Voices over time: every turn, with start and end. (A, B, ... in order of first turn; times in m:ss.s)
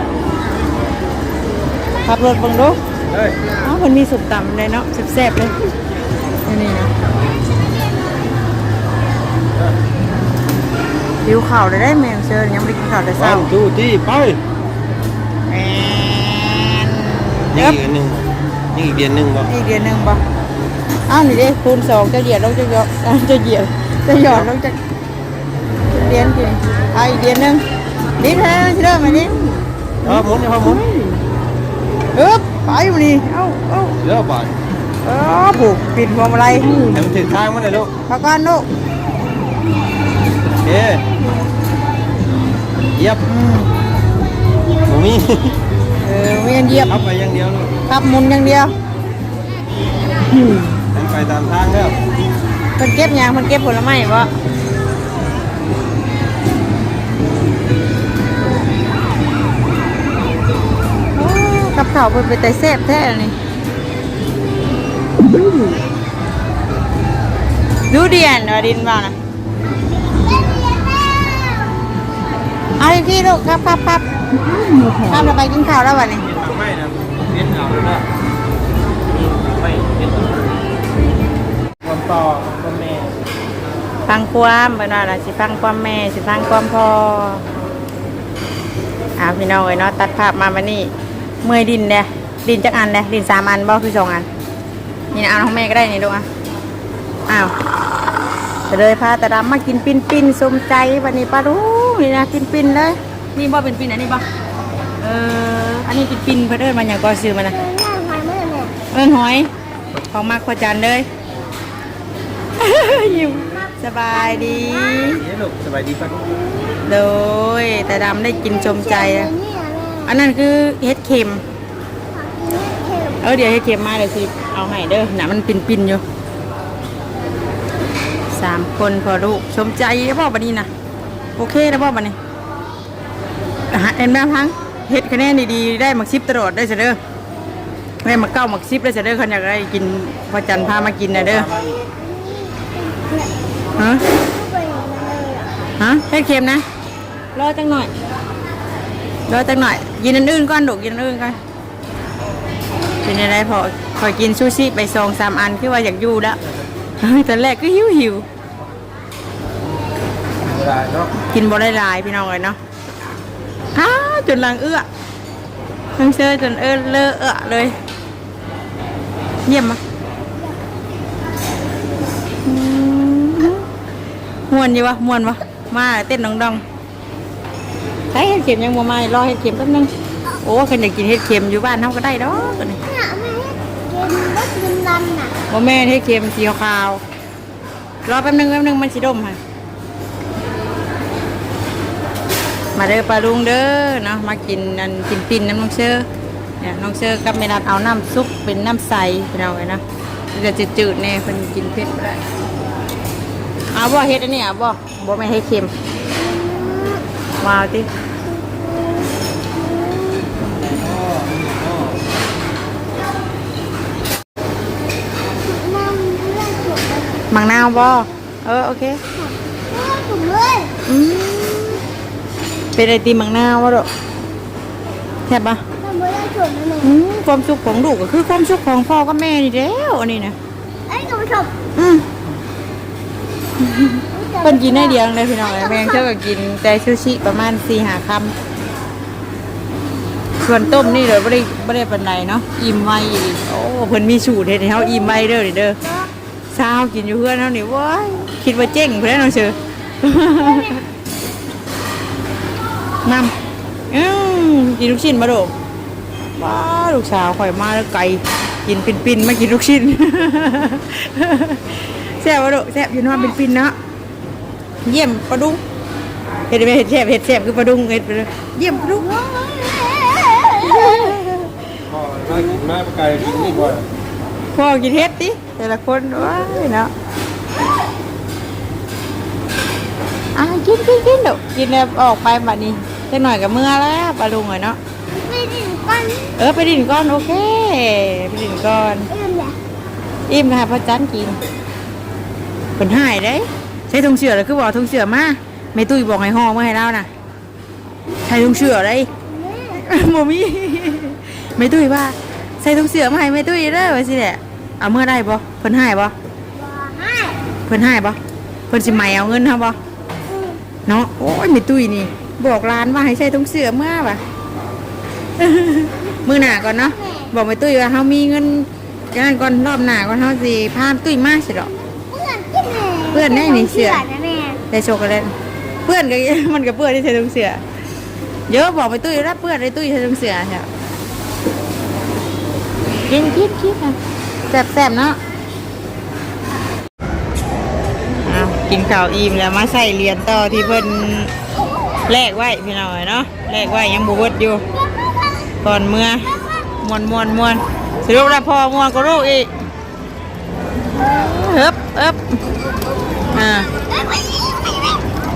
0:02.0-0:02.8 A
0:03.1-0:03.4 B
0:03.6-0:05.5 A
0:06.4-0:06.9 A
0:11.2-0:13.5 A
0:13.3-0:14.4 B
0:15.5-0:17.8 A
0:17.5-0:19.5 B
0:19.4-0:20.2 A
0:21.1-0:24.8 A
0:25.9-0:27.6 A
0:28.2-0:29.6 A
0:30.0-0:31.2 B
0:32.1-0:34.0 A
0:34.0-0:34.6 B
0:35.0-0:37.0 A
0:36.8-0:37.9 B
0:38.1-0:38.7 A
0:40.6-0:41.0 B
0:43.0-0:43.2 B
0:43.2-0:43.7 A
0:44.8-0:45.6 B
0:46.0-0:47.0 A
0:46.9-0:47.8 B
0:47.9-0:48.7 A
0:50.3-0:50.7 A
0:50.8-0:52.0 B
0:52.8-0:54.3 A
1:01.1-1:03.4 A
1:07.9-1:09.1 A
1:12.8-1:14.0 A
1:15.0-1:16.3 A
1:16.3-1:18.0 B
1:19.4-1:20.2 B
1:21.8-1:23.1 B
1:24.1-1:27.5 A
1:29.2-1:30.9 A
1:31.4-1:34.3 A
1:35.1-1:36.3 A
1:38.7-1:44.3 A
1:45.0-1:47.6 A
1:47.7-1:48.7 C
1:48.9-1:51.1 A
1:52.6-1:55.2 A
1:55.2-1:56.2 B
1:56.8-1:59.3 A
1:59.4-1:59.9 C
2:00.0-2:01.4 A
2:02.2-2:03.1 C
2:03.2-2:06.0 A
2:08.3-2:10.7 A
2:11.4-2:12.2 A
2:13.7-2:17.0 A
2:18.0-2:21.6 A
2:21.4-2:21.8 B
2:22.1-2:23.3 C
2:23.8-2:24.0 A
2:24.3-2:25.5 C
2:25.8-2:26.6 A
2:27.3-2:27.9 A
2:29.3-2:31.4 A
2:33.0-2:36.4 A
2:37.0-2:38.2 A
2:40.4-2:41.1 B
2:41.2-2:42.6 A
2:43.7-2:44.8 A
2:46.0-2:47.7 A
2:49.5-2:49.8 A
2:52.4-2:53.7 A
2:54.5-2:56.6 A
2:58.1-2:59.9 A
3:00.4-3:02.8 A
3:02.9-3:05.3 C
3:05.5-3:07.0 A
3:08.1-3:09.4 A
3:12.8-3:16.0 A
3:16.6-3:19.8 A
3:20.3-3:22.2 A
3:23.7-3:25.7 A
3:26.2-3:27.0 C
3:27.4-3:27.9 A
3:29.6-3:30.2 C
3:30.7-3:32.0 B
3:35.5-3:37.0 C
3:37.3-3:39.0 A
3:39.7-3:40.7 C
3:40.8-3:41.8 A
3:42.7-3:43.9 A
3:45.3-3:45.6 A
3:45.8-3:46.8 C
3:46.8-3:50.4 A
3:50.9-3:51.5 C
3:51.7-3:52.1 A
3:53.6-3:58.3 A
3:54.2-3:54.7 C
4:00.4-4:05.8 A
4:06.5-4:10.8 A
4:13.0-4:13.3 A
4:13.9-4:15.5 A
4:16.4-4:23.8 A
4:24.8-4:25.6 A
4:26.5-4:29.2 A
4:29.0-4:30.8 C
4:30.6-4:31.5 A
4:31.9-4:33.8 B
4:34.5-4:36.9 A
4:40.3-4:44.8 A
4:45.2-4:46.3 C
4:46.3-4:49.1 A
4:49.1-4:49.6 C
4:50.3-4:51.4 A
4:52.8-4:57.1 A
4:58.2-4:59.1 A
4:59.7-5:06.1 A
5:06.6-5:07.4 C
5:07.6-5:08.2 A
5:08.7-5:09.8 A
5:10.8-5:14.2 A
5:15.4-5:21.7 A
5:22.1-5:24.6 C
5:23.1-5:24.1 A
5:24.7-5:25.3 A
5:25.8-5:27.6 A
5:28.5-5:30.7 A
5:33.1-5:34.0 A
5:34.5-5:35.2 A
5:38.2-5:41.3 A
5:42.1-5:44.6 A
5:45.6-5:46.2 A
5:46.8-5:49.5 A
5:51.0-5:52.2 A
5:53.3-5:53.7 A